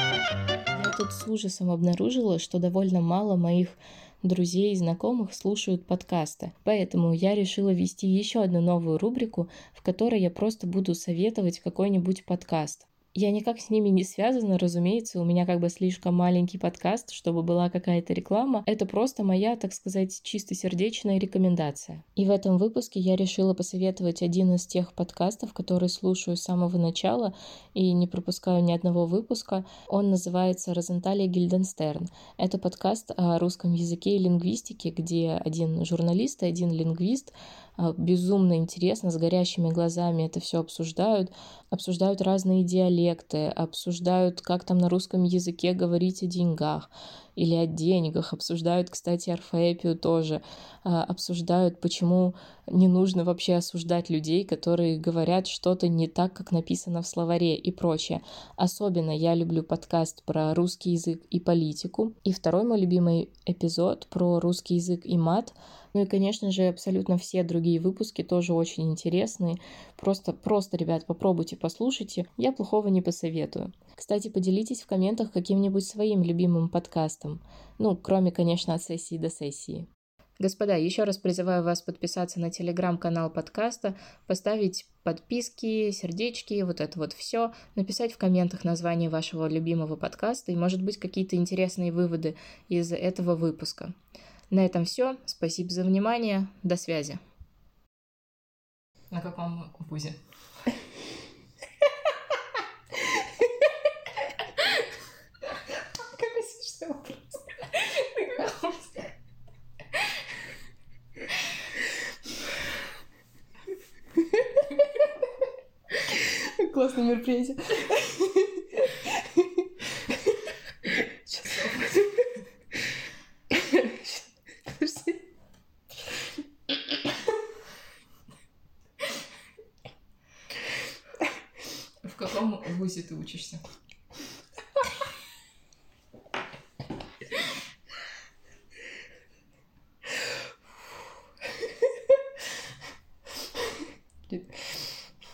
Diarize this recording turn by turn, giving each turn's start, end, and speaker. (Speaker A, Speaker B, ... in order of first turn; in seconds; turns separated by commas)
Speaker A: 0.7-79.9, Speaker A: 80.4-94.0, Speaker A: 94.5-97.2, Speaker A: 99.1-100.2, Speaker B: 106.2-107.6, Speaker A: 108.2-108.8, Speaker B: 116.1-120.3, Speaker B: 121.3-122.3, Speaker B: 123.5-125.2, Speaker A: 132.0-133.6, Speaker B: 144.3-145.0